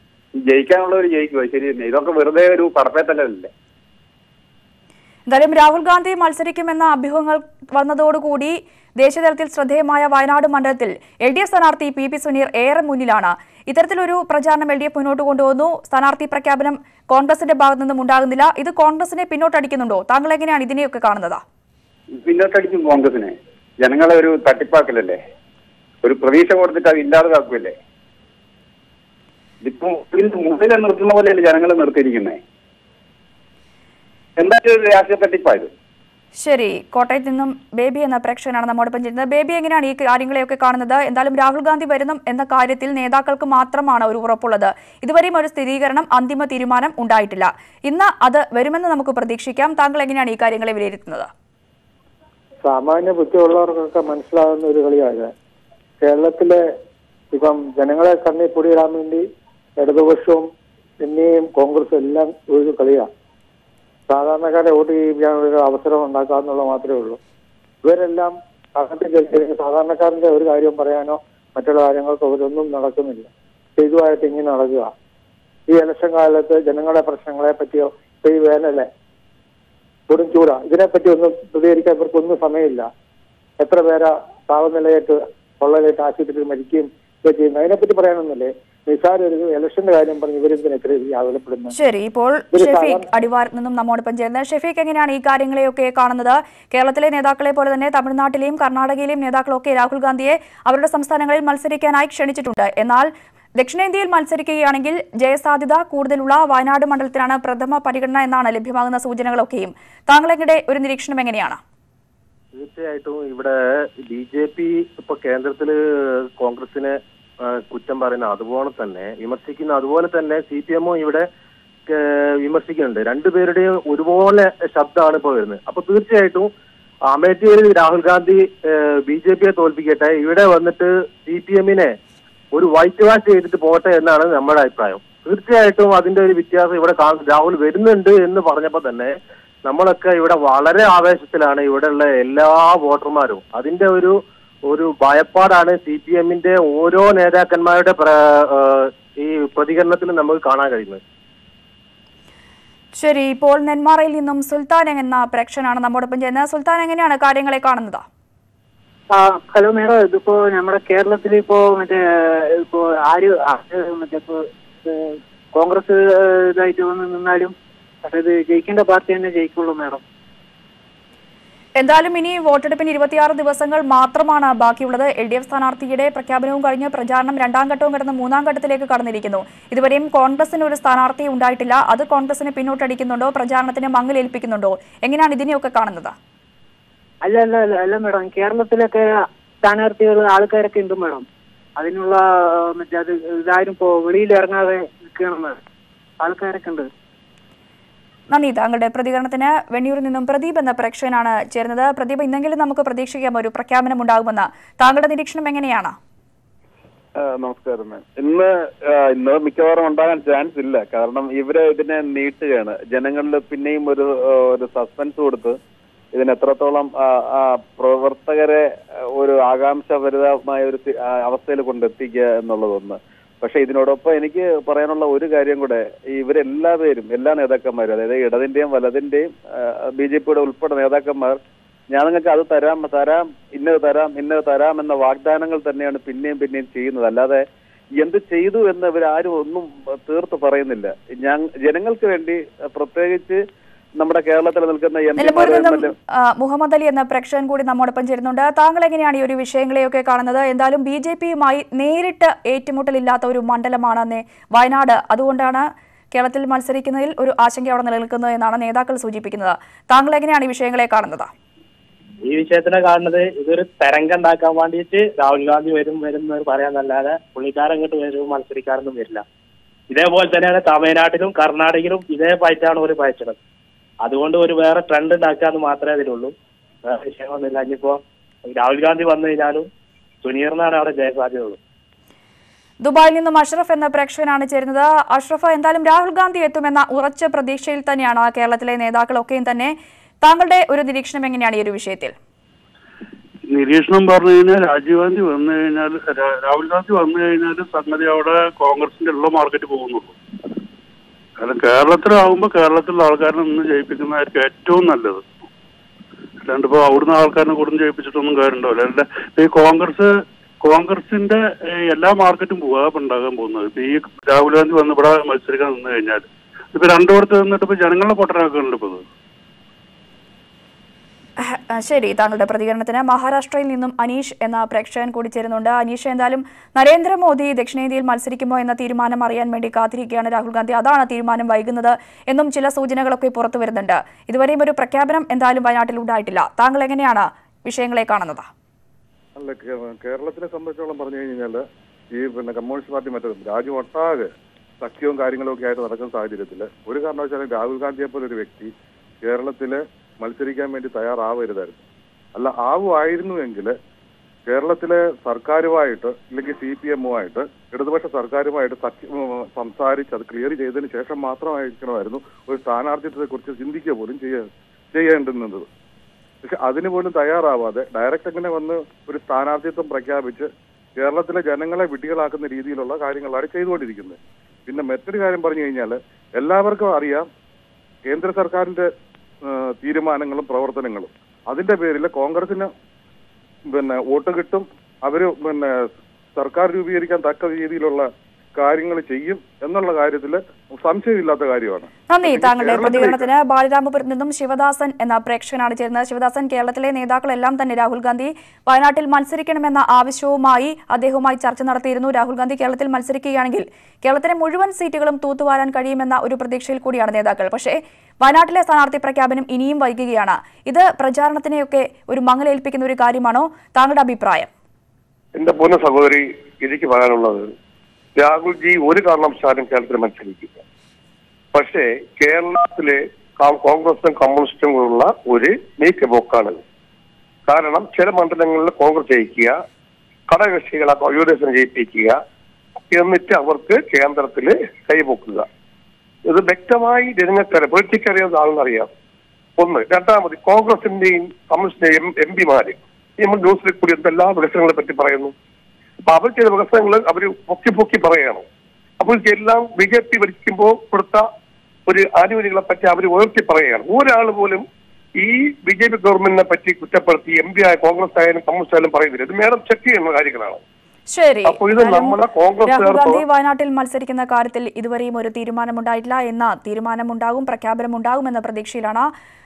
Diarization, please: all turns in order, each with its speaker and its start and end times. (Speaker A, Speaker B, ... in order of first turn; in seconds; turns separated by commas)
Speaker A: 0.4-3.5, Speaker B: 5.3-21.4, Speaker A: 22.2-25.2, Speaker A: 26.0-27.8, Speaker A: 29.6-32.4, Speaker A: 34.4-35.7, Speaker B: 36.4-51.3, Speaker C: 52.6-55.3, Speaker C: 56.0-56.6, Speaker C: 57.3-59.2, Speaker C: 59.8-60.4, Speaker C: 61.0-63.1, Speaker C: 64.1-67.2, Speaker C: 67.8-74.9, Speaker C: 75.7-78.9, Speaker C: 80.1-82.8, Speaker C: 83.6-91.7, Speaker B: 91.7-111.6, Speaker C: 92.5-93.0, Speaker D: 112.5-115.7, Speaker D: 116.4-116.9, Speaker D: 117.5-121.2, Speaker D: 121.9-126.5, Speaker D: 127.1-131.9, Speaker D: 132.5-139.1, Speaker D: 139.6-144.1, Speaker D: 144.7-151.0, Speaker B: 153.0-158.0, Speaker E: 159.1-162.0, Speaker E: 162.7-165.0, Speaker E: 165.5-167.5, Speaker E: 168.0-170.0, Speaker B: 171.8-186.1, Speaker E: 187.2-189.1, Speaker E: 189.6-191.2, Speaker E: 191.8-195.6, Speaker E: 196.2-196.9, Speaker B: 198.3-205.9, Speaker F: 207.2-215.6, Speaker F: 216.1-218.6, Speaker F: 219.2-229.3, Speaker F: 229.9-231.4, Speaker F: 231.9-237.4, Speaker F: 238.0-243.4, Speaker F: 244.0-245.9, Speaker B: 245.2-261.3, Speaker G: 262.2-269.2, Speaker G: 269.9-273.4, Speaker G: 274.0-276.3, Speaker G: 276.9-279.7, Speaker G: 280.2-281.6, Speaker B: 282.8-292.1, Speaker H: 293.5-300.1, Speaker H: 301.4-305.2, Speaker H: 306.4-319.0, Speaker B: 321.4-338.4, Speaker I: 339.4-348.7, Speaker I: 349.2-351.8, Speaker I: 352.4-353.7, Speaker I: 354.5-365.7, Speaker I: 366.4-370.5, Speaker I: 371.0-377.3, Speaker I: 378.1-378.9, Speaker I: 379.5-382.7, Speaker I: 383.7-393.3, Speaker B: 392.1-414.5, Speaker J: 415.4-417.5, Speaker J: 418.2-420.6, Speaker J: 421.5-426.6, Speaker J: 427.5-429.5, Speaker J: 430.3-432.2, Speaker J: 432.9-435.4, Speaker J: 436.3-438.9, Speaker J: 439.6-445.3, Speaker J: 446.1-448.4, Speaker J: 449.0-451.2, Speaker J: 451.9-454.6, Speaker J: 455.2-460.6, Speaker B: 461.1-469.1, Speaker J: 461.4-463.2